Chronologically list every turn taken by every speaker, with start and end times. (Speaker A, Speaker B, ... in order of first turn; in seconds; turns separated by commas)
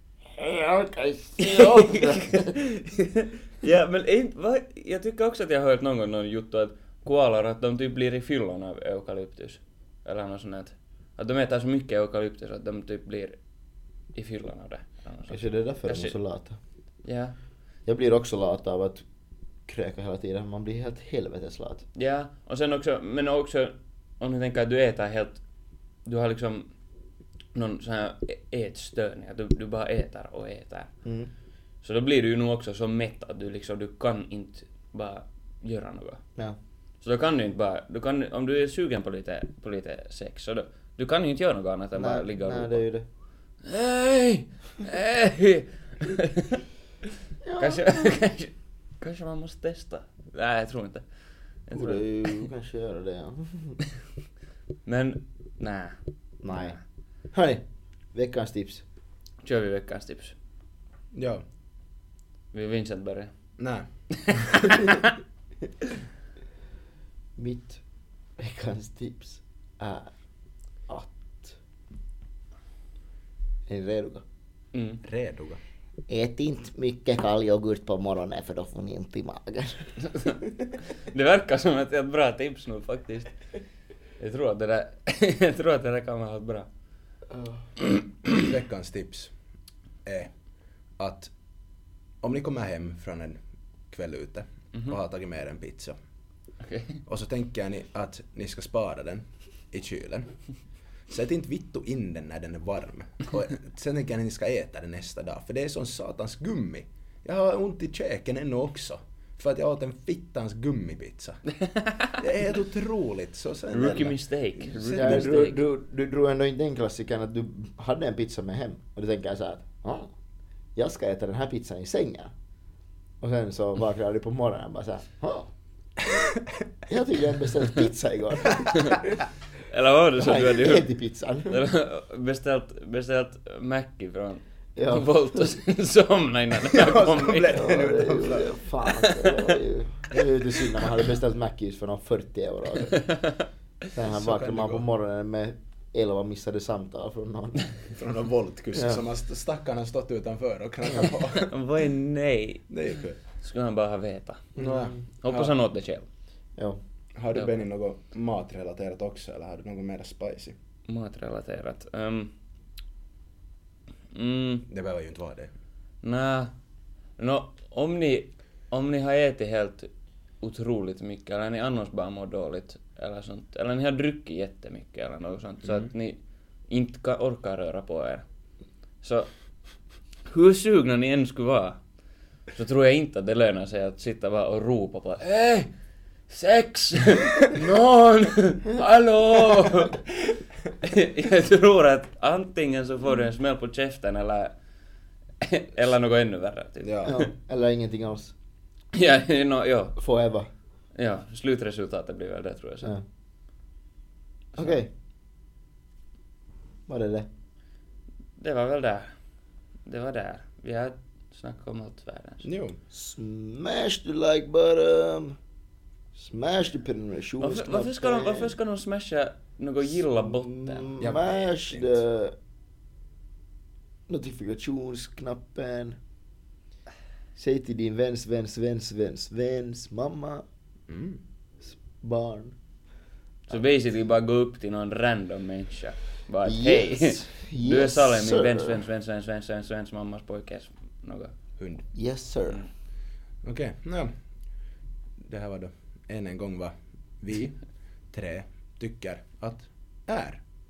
Speaker A: 0.3-2.6, Speaker B: 1.4-13.4, Speaker B: 14.1-16.1, Speaker A: 15.3-16.6, Speaker B: 17.0-17.4, Speaker A: 17.9-19.1, Speaker A: 19.7-21.8, Speaker B: 22.0-25.4, Speaker B: 26.1-26.7, Speaker B: 27.5-30.9, Speaker A: 31.1-31.3, Speaker B: 31.8-36.2, Speaker B: 37.0-42.8, Speaker A: 42.0-43.1, Speaker B: 43.6-46.6, Speaker A: 47.4-48.2, Speaker B: 47.6-51.0, Speaker B: 51.7-52.0, Speaker A: 51.7-53.8, Speaker B: 54.9-56.0, Speaker A: 56.4-56.8, Speaker A: 57.3-58.8, Speaker B: 59.4-60.4, Speaker C: 61.1-61.4, Speaker B: 62.5-63.3, Speaker C: 63.6-64.6, Speaker B: 64.1-65.2, Speaker A: 67.4-67.8, Speaker A: 68.4-70.1, Speaker A: 70.9-71.6, Speaker A: 73.7-74.2, Speaker B: 74.7-75.0, Speaker C: 75.0-75.6, Speaker A: 76.1-79.9, Speaker B: 80.1-80.4, Speaker B: 81.1-83.3, Speaker B: 84.2-86.7, Speaker C: 88.3-89.3, Speaker C: 90.0-90.3, Speaker C: 91.0-91.3, Speaker C: 92.2-93.4, Speaker C: 93.9-96.0, Speaker B: 96.6-97.0, Speaker C: 97.1-100.3, Speaker C: 101.1-111.4, Speaker B: 111.7-112.2, Speaker C: 112.2-115.3, Speaker B: 113.7-115.6, Speaker A: 114.9-120.1, Speaker A: 120.8-122.3, Speaker A: 123.2-125.5, Speaker C: 126.1-126.5, Speaker A: 126.9-129.0, Speaker B: 129.7-130.9, Speaker A: 130.2-131.6, Speaker B: 131.5-137.6, Speaker A: 134.8-135.2, Speaker C: 136.7-138.6, Speaker A: 137.5-143.1, Speaker B: 138.9-139.5, Speaker A: 143.9-147.7, Speaker C: 144.0-144.9, Speaker C: 147.9-151.5, Speaker B: 151.2-152.8, Speaker C: 152.7-153.2, Speaker B: 153.4-154.6, Speaker C: 154.6-155.5, Speaker A: 154.6-155.0, Speaker B: 155.2-156.1, Speaker C: 157.2-160.6, Speaker B: 160.9-162.3, Speaker B: 164.1-164.7, Speaker C: 164.7-165.5, Speaker B: 166.0-166.5, Speaker B: 167.2-169.9, Speaker B: 170.4-176.2, Speaker B: 176.7-178.2, Speaker B: 179.0-179.3, Speaker B: 180.3-181.8, Speaker B: 182.5-185.7, Speaker B: 186.3-194.5, Speaker B: 195.4-197.3, Speaker C: 196.8-197.2, Speaker A: 197.1-198.3, Speaker B: 198.9-200.0, Speaker A: 200.0-200.5, Speaker B: 201.0-202.9, Speaker A: 204.6-204.9, Speaker A: 206.9-207.3, Speaker B: 208.4-209.1, Speaker B: 209.9-212.5, Speaker C: 212.4-212.8, Speaker A: 212.9-215.4, Speaker A: 216.2-218.5, Speaker B: 217.4-220.9, Speaker A: 220.3-222.4, Speaker C: 221.0-222.0, Speaker A: 224.1-226.0, Speaker A: 227.4-230.4, Speaker C: 230.9-231.2, Speaker A: 232.0-232.6, Speaker B: 233.5-241.3, Speaker A: 236.4-238.8, Speaker C: 241.6-241.8, Speaker A: 241.9-242.7, Speaker C: 243.4-244.1, Speaker C: 245.2-247.6, Speaker C: 248.1-250.4